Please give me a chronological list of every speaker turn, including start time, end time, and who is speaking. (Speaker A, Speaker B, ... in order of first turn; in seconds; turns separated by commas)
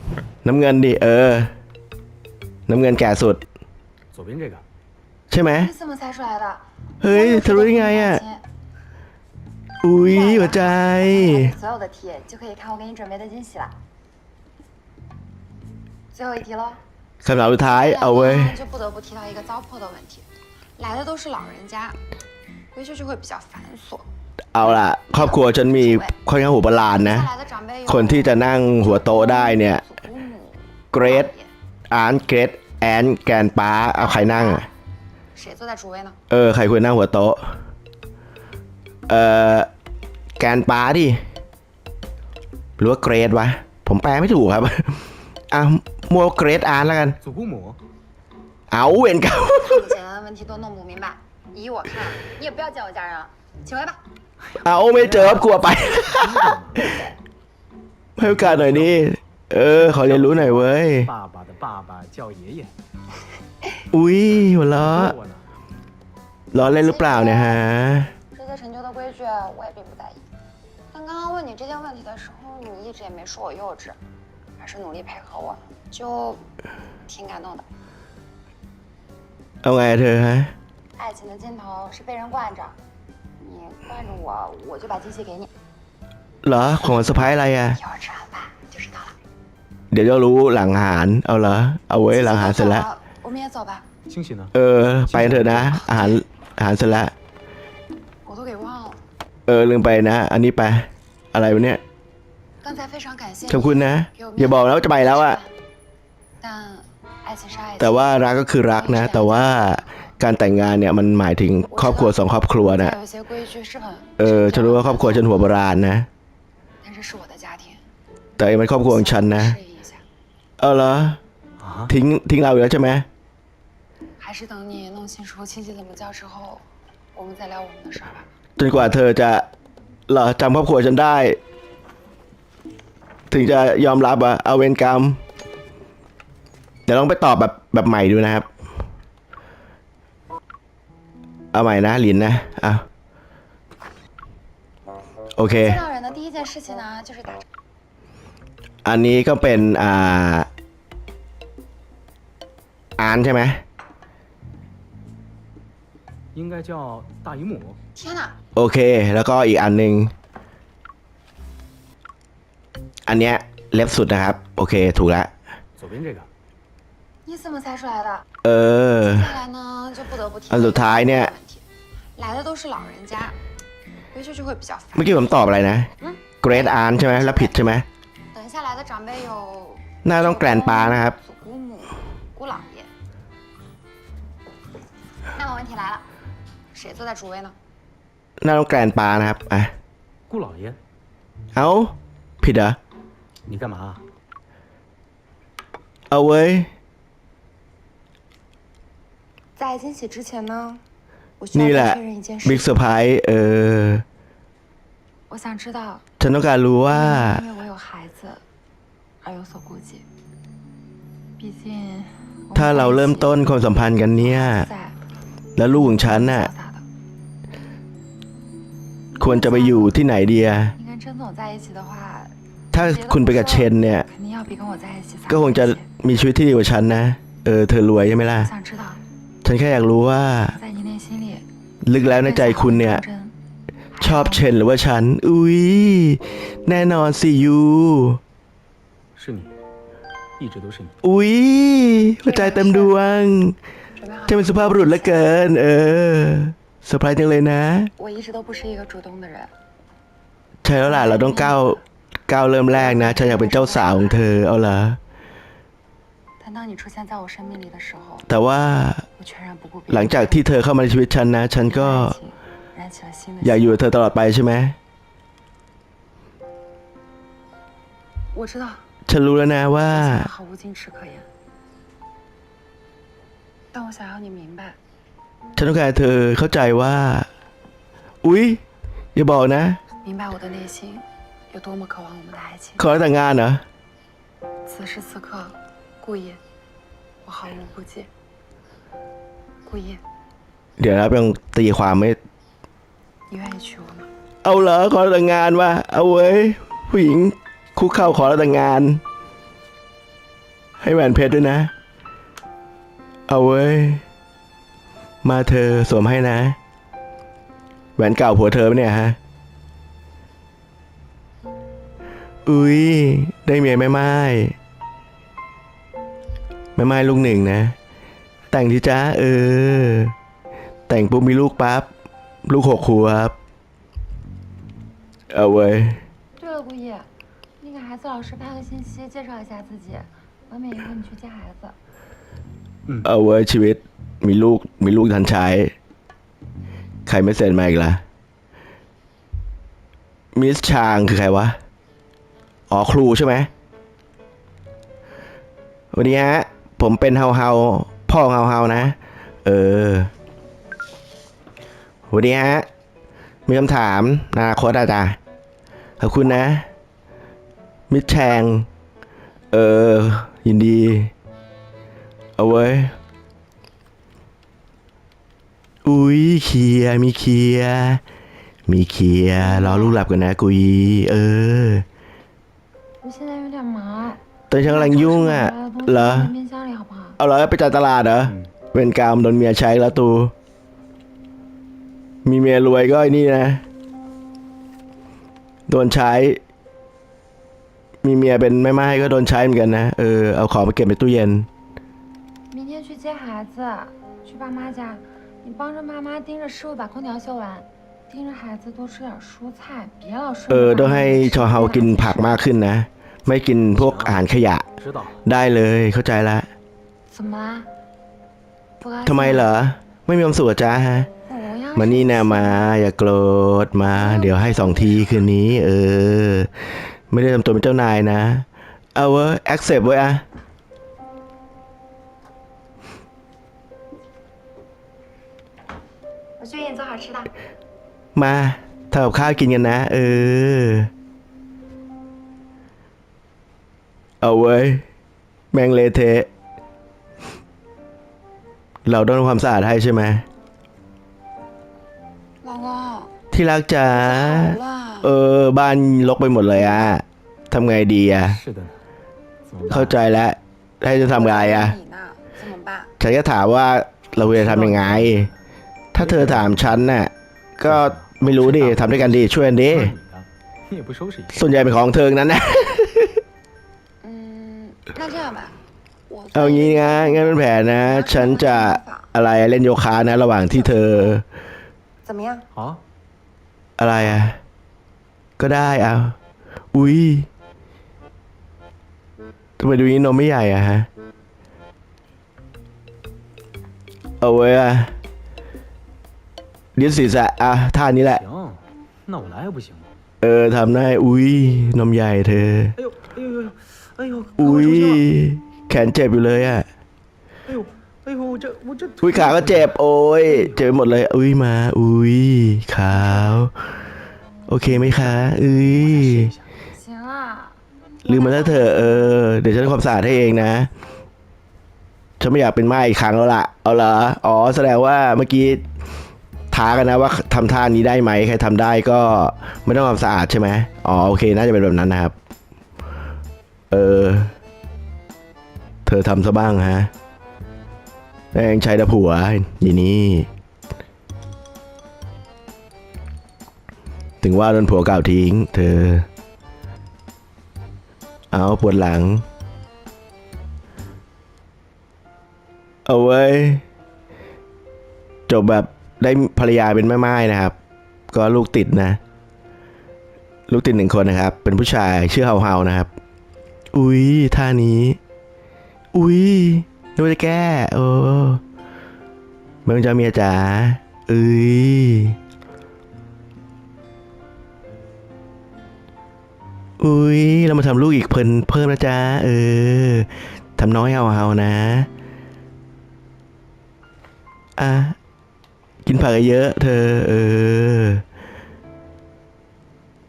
Speaker A: 0.4-1.5, Speaker A: 2.7-3.4, Speaker B: 4.1-4.6, Speaker A: 5.3-5.7, Speaker C: 5.6-8.4, Speaker A: 7.0-8.2, Speaker A: 9.8-11.5, Speaker C: 10.0-13.8, Speaker C: 16.1-16.8, Speaker A: 17.2-18.6, Speaker C: 17.6-20.2, Speaker C: 20.8-22.0, Speaker C: 22.7-24.1, Speaker A: 24.5-27.3, Speaker C: 25.1-26.1, Speaker C: 26.9-31.5, Speaker A: 27.9-29.8, Speaker A: 30.9-31.3, Speaker A: 31.9-34.7, Speaker C: 33.9-34.7, Speaker C: 35.3-36.2, Speaker A: 36.3-37.4, Speaker A: 39.1-39.7, Speaker A: 40.4-41.2, Speaker A: 42.8-47.2, Speaker B: 47.2-47.8, Speaker A: 48.7-49.9, Speaker C: 49.6-54.0, Speaker B: 54.4-57.0, Speaker A: 54.6-57.0, Speaker A: 58.2-61.1, Speaker B: 58.2-59.0, Speaker B: 59.6-62.7, Speaker A: 63.9-65.2, Speaker B: 64.6-65.4, Speaker A: 66.5-68.1, Speaker C: 66.6-67.6, Speaker C: 68.3-70.2, Speaker C: 70.9-74.0, Speaker C: 74.6-76.4, Speaker C: 77.1-77.6, Speaker A: 79.6-80.5, Speaker C: 81.0-82.8, Speaker C: 83.4-85.5, Speaker A: 86.4-87.8, Speaker C: 87.7-89.2, Speaker A: 89.9-92.9, Speaker C: 92.1-93.9, Speaker B: 94.1-94.5, Speaker A: 94.5-97.1, Speaker B: 95.0-95.8, Speaker C: 95.8-96.2, Speaker C: 98.2-99.0, Speaker A: 99.5-101.8, Speaker C: 102.6-105.5, Speaker A: 103.5-105.4, Speaker C: 106.4-108.2, Speaker A: 107.8-113.0, Speaker C: 108.7-110.0, Speaker C: 111.7-115.4, Speaker A: 114.2-116.1, Speaker C: 116.8-117.8, Speaker A: 118.4-119.6, Speaker C: 118.8-120.0, Speaker A: 120.6-121.2, Speaker B: 121.6-121.9, Speaker A: 121.9-123.0, Speaker C: 124.2-126.6, Speaker C: 127.1-128.3, Speaker A: 128.6-129.5, Speaker A: 130.1-131.4, Speaker A: 133.3-135.2, Speaker A: 136.9-138.4, Speaker A: 141.5-142.8, Speaker A: 145.4-145.8, Speaker C: 145.5-147.4, Speaker A: 148.8-150.5, Speaker A: 153.0-153.6, Speaker B: 156.3-157.8, Speaker C: 157.9-158.3, Speaker A: 158.6-160.1, Speaker A: 163.1-165.3, Speaker B: 165.8-166.3, Speaker C: 167.2-168.2, Speaker A: 168.4-169.3, Speaker C: 169.0-171.6, Speaker A: 170.5-171.3, Speaker C: 172.2-173.3, Speaker C: 174.1-175.4, Speaker A: 174.9-175.9, Speaker C: 176.0-177.6, Speaker A: 176.4-177.8, Speaker C: 178.3-182.9, Speaker A: 180.0-181.2, Speaker C: 185.3-186.0, Speaker C: 186.7-187.5, Speaker A: 188.4-189.7, Speaker B: 190.3-190.8, Speaker A: 191.5-192.8, Speaker B: 193.4-194.0, Speaker A: 196.1-196.7, Speaker C: 199.6-200.8, Speaker C: 201.4-202.7, Speaker A: 201.5-204.0, Speaker C: 205.3-206.0, Speaker A: 206.2-207.4, Speaker C: 206.9-208.4, Speaker C: 209.2-210.0, Speaker C: 211.4-213.4, Speaker A: 212.5-214.7, Speaker C: 214.2-215.0, Speaker A: 215.6-216.5, Speaker C: 215.6-216.8, Speaker C: 219.1-220.0, Speaker A: 219.2-220.7, Speaker C: 220.7-225.8, Speaker A: 222.7-224.1, Speaker A: 225.3-228.5, Speaker C: 228.4-229.0, Speaker A: 229.4-230.6, Speaker C: 230.6-231.4, Speaker A: 231.8-233.0, Speaker C: 232.0-233.3, Speaker C: 233.9-234.5, Speaker A: 234.0-238.2, Speaker B: 239.2-239.5, Speaker B: 240.4-240.9, Speaker A: 241.0-243.6, Speaker C: 242.2-243.0, Speaker C: 243.9-245.4, Speaker A: 244.3-247.9, Speaker C: 248.0-249.5, Speaker A: 250.6-255.0, Speaker C: 250.8-251.8, Speaker C: 252.7-254.2, Speaker C: 256.4-258.3, Speaker A: 258.3-259.1, Speaker C: 259.2-260.5, Speaker A: 259.9-262.1, Speaker C: 261.6-263.7, Speaker A: 263.4-264.8, Speaker C: 268.3-268.8, Speaker A: 269.1-270.3, Speaker C: 269.9-271.3, Speaker C: 273.7-274.8, Speaker A: 275.6-277.3, Speaker A: 278.2-278.6, Speaker A: 279.1-279.8, Speaker C: 280.0-282.9, Speaker A: 282.8-283.6, Speaker C: 284.6-286.4, Speaker C: 287.2-288.1, Speaker C: 289.6-290.0, Speaker A: 290.8-292.2, Speaker C: 293.3-294.1, Speaker A: 294.4-299.0, Speaker A: 300.8-301.7, Speaker A: 303.3-304.0, Speaker A: 305.2-306.6, Speaker A: 308.0-309.2, Speaker A: 312.4-314.5, Speaker A: 316.8-317.7, Speaker A: 318.5-320.1, Speaker A: 320.9-321.9, Speaker A: 322.4-323.4, Speaker A: 325.3-326.0, Speaker C: 326.4-327.1, Speaker C: 327.6-331.8, Speaker A: 333.0-335.7, Speaker A: 337.1-338.0, Speaker A: 340.3-341.6, Speaker A: 342.7-343.5, Speaker A: 345.9-350.1, Speaker A: 352.1-352.7, Speaker A: 353.5-355.2, Speaker A: 356.0-356.6, Speaker A: 357.9-358.7, Speaker A: 359.5-361.1, Speaker A: 362.4-362.9, Speaker A: 365.8-368.0, Speaker A: 368.7-371.8, Speaker C: 369.4-370.0, Speaker C: 373.0-377.2, Speaker A: 374.5-376.3, Speaker A: 377.2-380.3, Speaker B: 378.2-378.5, Speaker A: 382.2-383.6, Speaker A: 385.7-386.4, Speaker A: 388.0-391.5, Speaker C: 392.5-402.4, Speaker A: 400.5-404.7, Speaker B: 403.7-404.2, Speaker B: 404.8-405.2, Speaker A: 405.2-406.5, Speaker C: 407.1-407.7, Speaker C: 408.8-409.5, Speaker A: 409.0-411.1, Speaker C: 411.2-412.7, Speaker A: 411.7-416.5, Speaker C: 413.8-415.3, Speaker A: 417.1-420.2, Speaker C: 426.4-427.3, Speaker A: 428.1-430.9, Speaker A: 434.2-434.8, Speaker A: 435.5-436.3, Speaker A: 438.8-440.2, Speaker C: 442.4-443.1, Speaker A: 443.3-448.4, Speaker C: 443.9-445.1, Speaker C: 446.5-446.9, Speaker B: 448.2-448.8, Speaker B: 449.4-449.9, Speaker A: 449.7-451.8, Speaker C: 451.1-452.9, Speaker A: 453.0-455.3, Speaker B: 454.1-455.3, Speaker A: 455.9-459.9, Speaker B: 456.0-456.6, Speaker B: 457.6-461.4, Speaker A: 461.3-463.2, Speaker C: 464.0-465.5, Speaker C: 466.1-469.1, Speaker A: 466.3-471.2, Speaker C: 470.5-471.2, Speaker C: 472.0-472.4, Speaker B: 472.5-472.8, Speaker A: 473.8-474.4, Speaker A: 475.4-476.1, Speaker A: 476.7-477.3, Speaker A: 479.6-480.9, Speaker A: 484.2-484.9, Speaker A: 486.8-488.2, Speaker B: 488.1-489.9, Speaker A: 490.2-492.7, Speaker B: 492.8-495.1, Speaker A: 494.4-496.7, Speaker B: 497.4-500.6, Speaker A: 499.0-503.5, Speaker A: 504.5-506.3, Speaker B: 504.7-506.5, Speaker C: 506.7-508.9, Speaker A: 508.0-510.7, Speaker A: 512.2-515.6, Speaker A: 516.5-522.1, Speaker A: 523.7-524.3, Speaker A: 525.9-526.9, Speaker A: 528.3-530.3, Speaker A: 534.2-536.1, Speaker A: 538.3-539.2, Speaker A: 542.9-543.6, Speaker A: 545.3-547.5, Speaker A: 548.1-549.0, Speaker A: 550.5-552.9, Speaker A: 553.7-555.0, Speaker A: 555.9-558.4, Speaker A: 559.6-562.2, Speaker A: 566.8-571.9, Speaker A: 574.6-575.0, Speaker A: 575.8-578.0